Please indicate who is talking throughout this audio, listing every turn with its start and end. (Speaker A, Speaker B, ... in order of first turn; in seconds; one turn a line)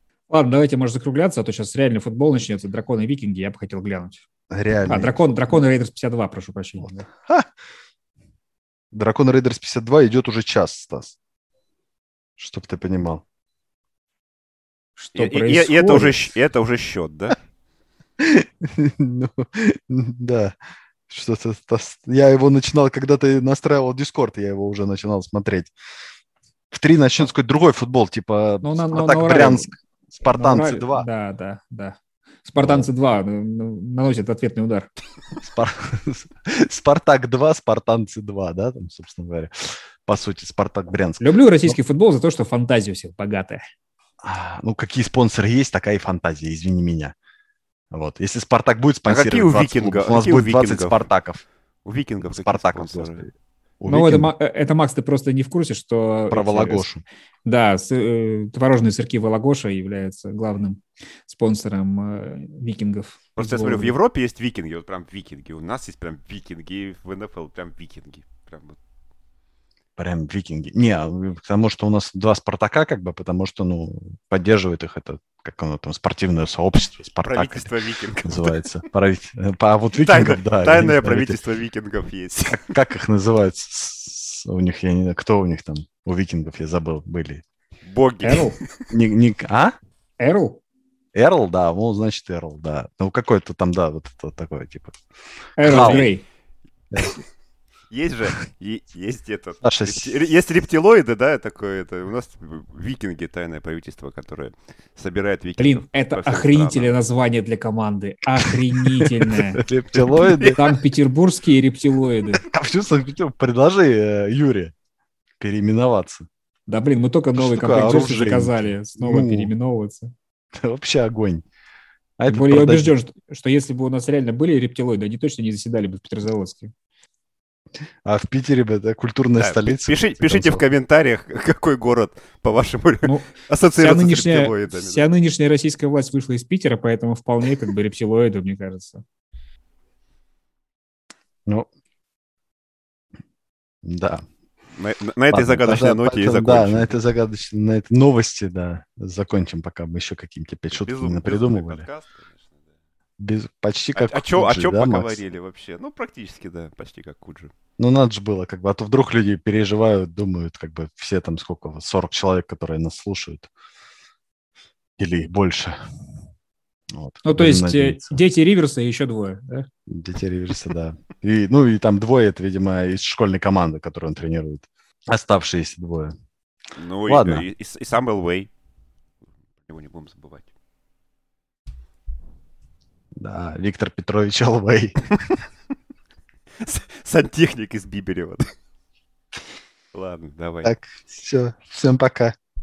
Speaker A: 0.3-4.2
Speaker B: 4.5-5.2
Speaker A: 4.8-7.0
Speaker B: 6.8-7.5
Speaker B: 8.9-11.2
Speaker B: 12.4-13.2
Speaker A: 15.0-16.2
Speaker C: 15.1-17.4
Speaker B: 18.2-20.5
Speaker B: 21.1-25.7
Speaker B: 26.7-31.1
Speaker A: 28.6-29.7
Speaker A: 30.2-34.9
Speaker B: 32.6-32.9
Speaker B: 35.4-41.8
Speaker A: 41.2-43.6
Speaker B: 44.2-47.1
Speaker B: 47.9-51.4
Speaker C: 49.0-51.1
Speaker C: 51.8-53.3
Speaker B: 52.2-54.3
Speaker A: 53.9-56.8
Speaker B: 56.3-57.0
Speaker A: 57.5-64.0
Speaker C: 63.4-68.8
Speaker B: 70.0-81.4
Speaker C: 77.2-78.6
Speaker C: 79.9-82.8
Speaker B: 82.5-87.4
Speaker C: 87.8-88.9
Speaker A: 88.2-88.6
Speaker B: 88.9-89.7
Speaker A: 90.2-90.6
Speaker B: 91.1-95.0
Speaker A: 95.6-96.2
Speaker B: 95.6-96.1
Speaker C: 95.6-96.2
Speaker C: 97.9-107.0
Speaker B: 99.6-100.2
Speaker A: 105.6-109.6
Speaker B: 108.5-110.6
Speaker C: 110.0-110.6
Speaker A: 110.2-112.4
Speaker B: 112.4-114.7
Speaker B: 115.4-116.3
Speaker A: 116.7-120.1
Speaker B: 117.3-119.5
Speaker B: 120.5-121.4
Speaker B: 122.2-122.9
Speaker A: 122.3-126.7
Speaker B: 128.0-130.7
Speaker C: 129.4-135.0
Speaker A: 133.0-139.0
Speaker B: 143.8-144.2
Speaker C: 144.8-146.9
Speaker B: 145.3-151.9
Speaker C: 150.7-152.6
Speaker B: 153.2-155.2
Speaker C: 153.9-157.5
Speaker B: 157.8-163.5
Speaker B: 165.0-165.8
Speaker B: 166.9-168.2
Speaker A: 167.2-169.7
Speaker B: 169.9-176.1
Speaker C: 176.7-178.5
Speaker B: 177.1-177.4
Speaker C: 179.6-180.5
Speaker B: 183.2-185.0
Speaker C: 186.6-188.4
Speaker C: 189.9-190.7
Speaker B: 190.6-192.3